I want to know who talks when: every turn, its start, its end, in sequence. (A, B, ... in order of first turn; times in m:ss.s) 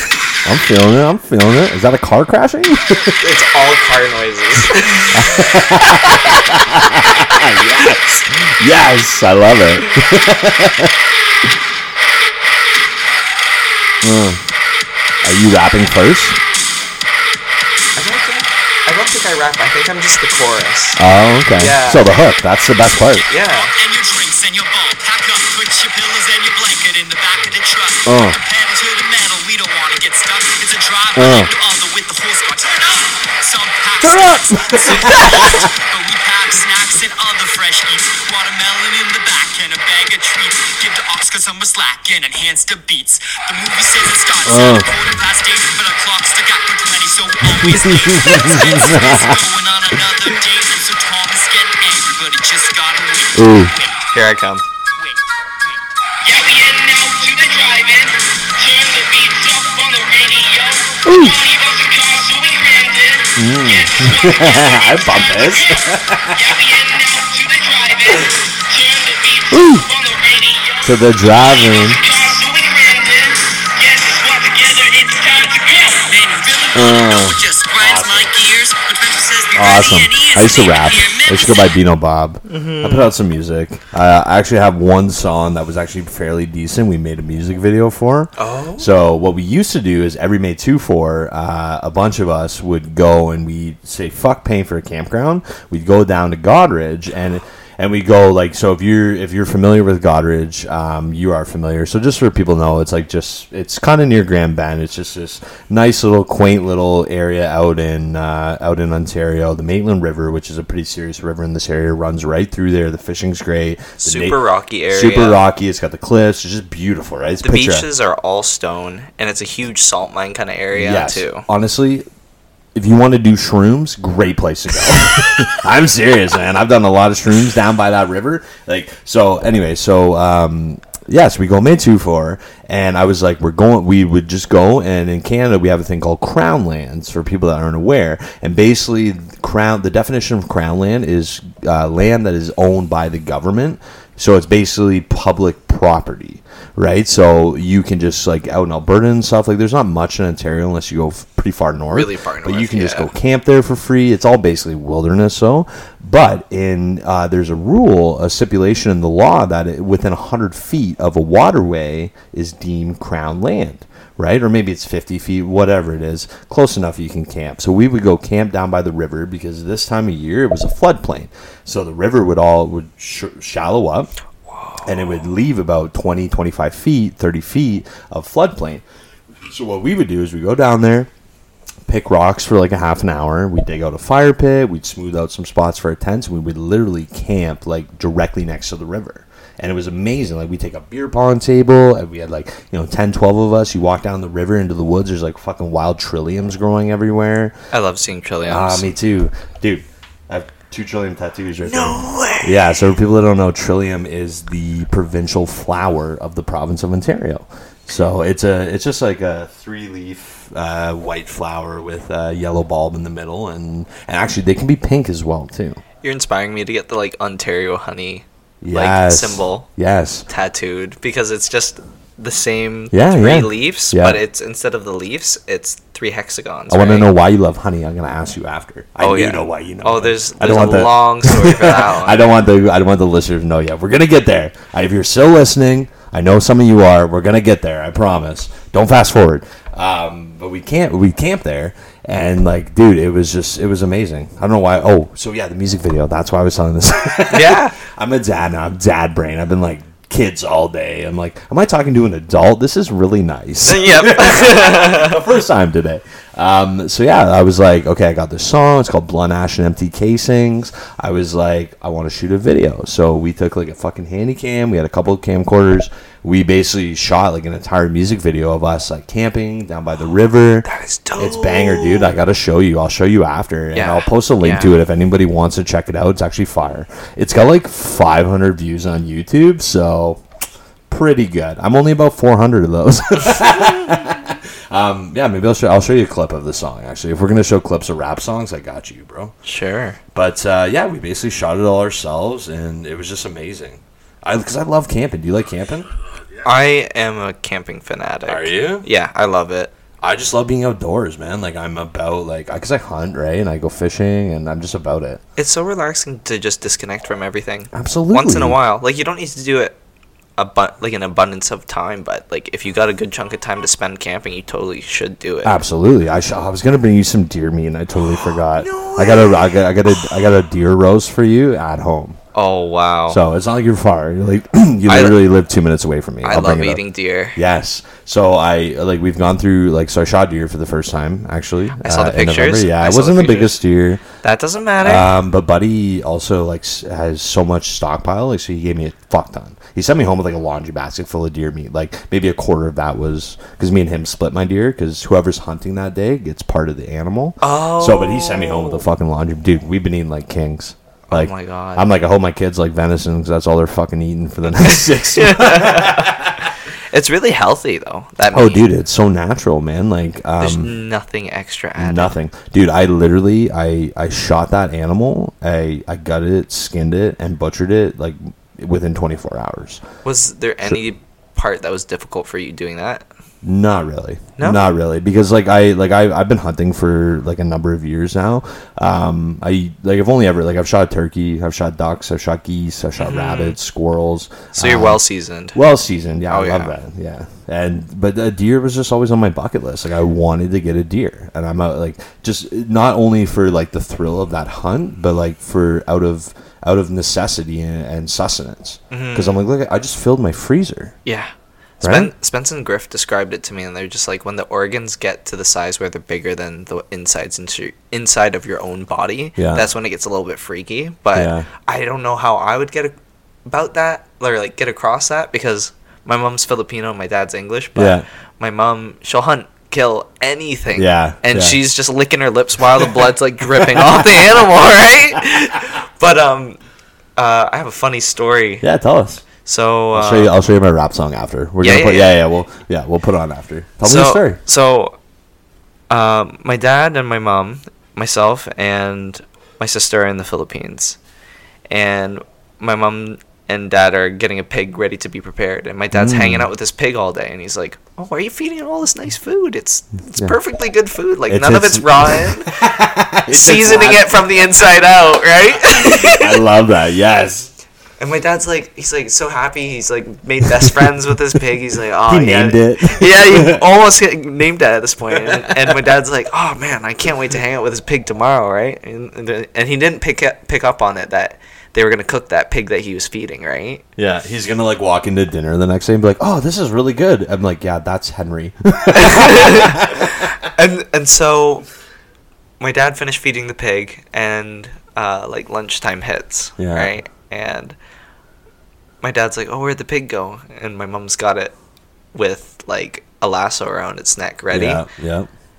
0:00.4-0:03.2 A
0:03.0-0:05.6 B
0:05.1-0:10.9 A
0:14.0-0:14.4 A
0:15.2-0:16.4 A
0:18.0-0:21.0 B
0:21.0-0:23.2 A
0:21.6-0:22.1 B
0:23.1-0:54.1 C
0:23.3-0:23.7 B
0:28.0-0:28.4 A
0:31.1-0:31.5 A
0:34.0-0:35.7 A
0:44.4-0:45.0 A
0:47.4-0:49.4 A
0:53.3-0:53.7 A
0:54.1-0:54.6 B
0:56.2-1:21.7 C
1:01.0-1:01.4 A
1:03.4-1:06.6 A
1:09.5-1:09.9 A
1:10.8-1:12.0 A
1:16.7-1:18.3 A
1:19.5-1:54.4 A
1:22.4-1:23.1 B
1:28.4-1:28.9 B
1:54.0-1:55.4 B
1:54.9-1:57.9 A
1:57.4-2:01.4 B
2:00.7-2:02.0 A
2:02.7-2:54.1 A
2:31.9-2:33.1 B
2:54.6-2:54.8 B
2:54.8-2:58.8 A
2:59.4-3:01.1 A
3:01.9-3:17.5 A
3:17.7-3:18.9 B
3:18.5-3:35.8 A
3:21.6-3:22.6 B
3:36.0-3:39.7 B
3:38.6-3:40.2 A
3:40.3-3:47.1 B
3:42.9-3:44.2 A
3:46.7-4:40.2 A
3:49.0-3:52.2 B
4:07.3-4:07.8 B
4:13.6-4:15.2 B
4:30.6-4:32.1 B
4:33.7-4:34.7 B
4:40.9-4:49.3 A
4:49.4-4:50.0 B
4:50.1-4:55.9 A
4:56.4-4:59.7 B
4:58.3-4:58.8 A
5:00.0-5:05.2 A
5:05.4-5:09.8 B
5:07.7-5:08.6 A
5:10.4-5:15.6 B
5:15.4-5:22.2 A
5:18.0-5:19.5 B
5:22.3-5:23.2 B
5:23.1-5:26.8 A
5:24.9-5:25.2 B
5:26.2-5:27.4 B
5:27.3-5:34.0 A
5:31.8-5:33.6 B
5:34.2-5:35.1 B
5:34.8-5:56.5 A
5:47.4-5:48.9 B
5:51.1-5:51.9 B
5:54.5-5:56.3 B
5:56.9-5:58.6 B
5:58.3-6:00.7 A
6:00.4-6:02.1 B
6:01.8-6:09.8 A
6:10.0-6:13.0 B
6:13.4-6:25.0 A
6:14.4-6:14.7 B
6:23.0-6:23.6 B
6:24.5-6:25.6 B
6:25.5-6:40.9 A
6:26.3-6:26.7 B
6:38.9-6:39.4 B
6:41.0-6:52.9 B
6:41.8-6:42.1 A
6:49.4-6:49.7 A
6:51.1-6:51.5 A
6:53.4-7:06.6 B
6:57.7-6:58.0 A
7:00.7-7:01.6 A
7:03.6-7:04.2 A
7:07.2-7:08.6 B
7:08.6-7:09.2 A
7:09.4-7:10.3 B
7:09.9-7:14.4 A
7:11.6-7:12.2 B
7:13.8-7:15.0 B
7:15.9-7:21.0 B
7:21.7-7:32.5 B
7:25.9-7:26.5 A
7:31.3-7:34.2 A
7:33.3-7:36.4 B
7:35.8-7:37.5 A
7:38.0-7:53.8 B
7:42.1-7:43.6 A
7:45.2-7:45.9 A
7:54.0-8:00.2 A
7:58.9-8:01.6 B
8:02.6-8:07.8 B
8:06.6-8:06.9 A
8:09.0-8:11.5 B
8:12.1-8:14.8 B
8:14.5-8:15.3 A